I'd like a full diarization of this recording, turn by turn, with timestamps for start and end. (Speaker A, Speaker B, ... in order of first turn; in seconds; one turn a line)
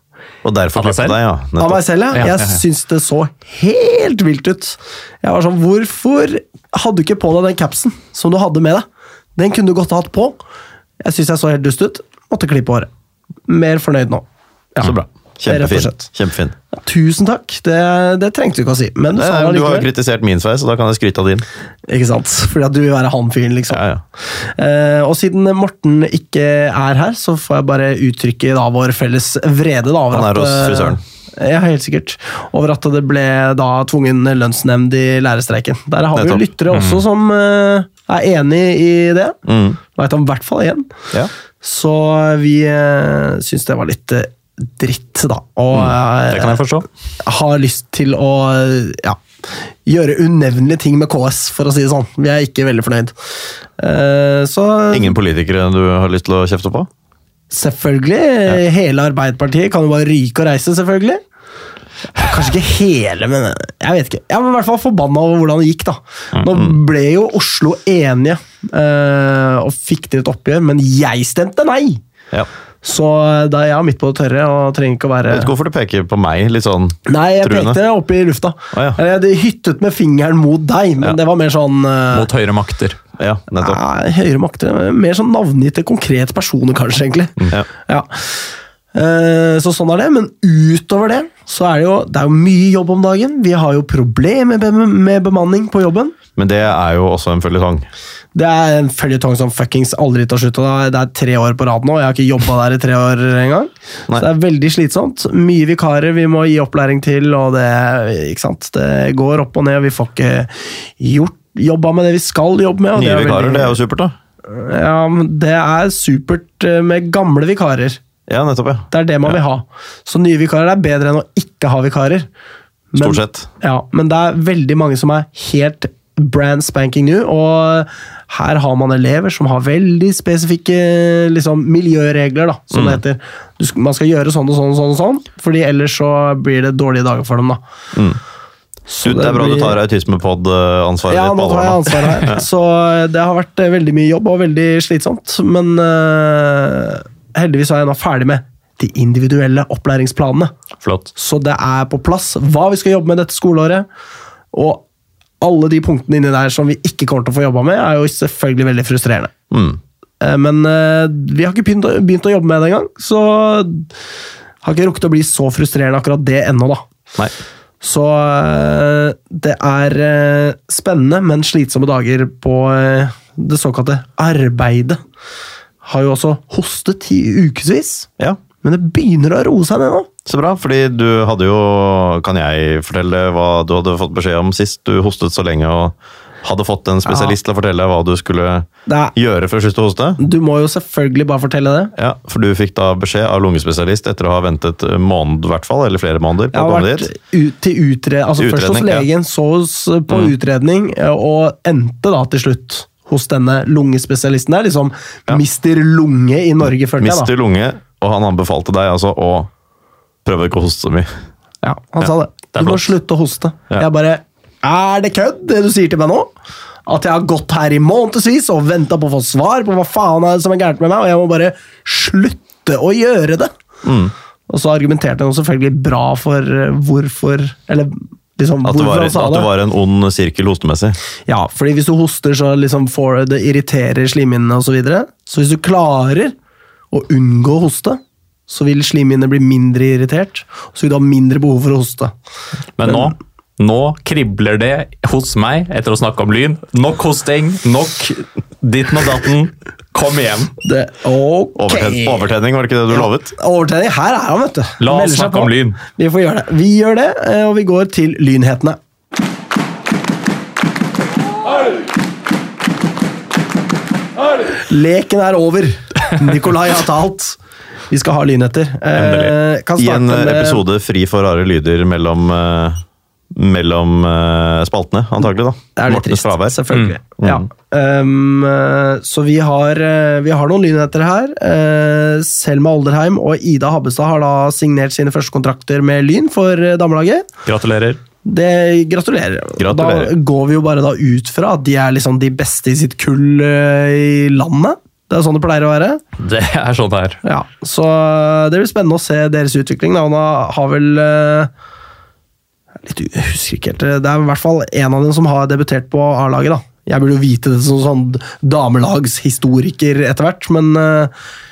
Speaker A: 0.4-1.8
Speaker B: 0.8-1.2
Speaker C: 1.6-10.4
Speaker B: 2.1-2.6
Speaker C: 11.0-12.9
Speaker C: 13.5-14.9
Speaker A: 14.8-16.5
Speaker C: 15.5-16.1
Speaker C: 16.8-19.9
Speaker A: 19.1-21.4
Speaker C: 21.9-39.4
Speaker A: 23.7-24.0
Speaker A: 30.1-31.0
Speaker A: 36.1-36.4
Speaker B: 36.7-37.0
Speaker A: 39.5-39.8
Speaker C: 39.9-40.9
Speaker C: 41.6-46.6
Speaker B: 46.3-46.9
Speaker C: 47.2-49.2
Speaker C: 49.9-53.1
Speaker C: 53.8-55.2
Speaker A: 54.9-56.9
Speaker C: 57.5-61.2
Speaker C: 62.1-72.0
Speaker A: 66.5-66.8
Speaker C: 72.8-75.5
Speaker A: 75.3-77.8
Speaker C: 77.1-82.3
Speaker A: 78.7-79.0
Speaker B: 82.1-83.0
Speaker A: 83.2-83.8
Speaker C: 83.6-96.1
Speaker A: 87.4-87.7
Speaker A: 96.3-97.9
Speaker C: 98.3-113.8
Speaker A: 112.9-114.2
Speaker C: 114.5-118.0
Speaker A: 118.3-119.4
Speaker C: 118.9-122.3
Speaker C: 122.9-137.6
Speaker A: 123.0-123.5
Speaker A: 132.7-133.0
Speaker C: 138.9-139.8
Speaker A: 139.0-142.4
Speaker C: 141.1-150.5
Speaker B: 150.8-151.1
Speaker C: 151.1-153.8
Speaker C: 154.5-154.8
Speaker C: 155.4-159.3
Speaker A: 159.5-159.8
Speaker C: 160.2-163.9
Speaker C: 164.6-166.8
Speaker C: 167.8-175.0
Speaker C: 175.8-178.1
Speaker C: 178.6-180.1
Speaker A: 180.2-190.2
Speaker C: 187.1-187.3
Speaker C: 188.9-189.1
Speaker C: 190.2-191.9
Speaker A: 191.9-197.1
Speaker C: 196.5-207.3
Speaker A: 198.4-199.1
Speaker A: 207.0-209.5
Speaker A: 210.2-211.1
Speaker C: 211.6-216.3
Speaker B: 212.5-212.9
Speaker C: 216.9-223.5
Speaker A: 223.8-224.1
Speaker C: 224.5-229.5
Speaker A: 228.6-231.0
Speaker C: 231.3-236.3
Speaker C: 236.9-242.1
Speaker B: 242.8-250.5
Speaker C: 242.8-243.1
Speaker C: 250.6-252.2
Speaker A: 251.6-253.3
Speaker C: 252.9-258.8
Speaker B: 254.8-255.8
Speaker C: 264.6-267.4
Speaker C: 267.9-270.6
Speaker B: 268.9-269.3
Speaker A: 269.8-276.6
Speaker C: 275.8-287.3
Speaker A: 277.2-277.4
Speaker B: 287.4-288.0
Speaker C: 288.2-296.0
Speaker A: 289.6-290.1
Speaker B: 296.2-297.2
Speaker C: 297.2-301.5
Speaker C: 302.8-311.1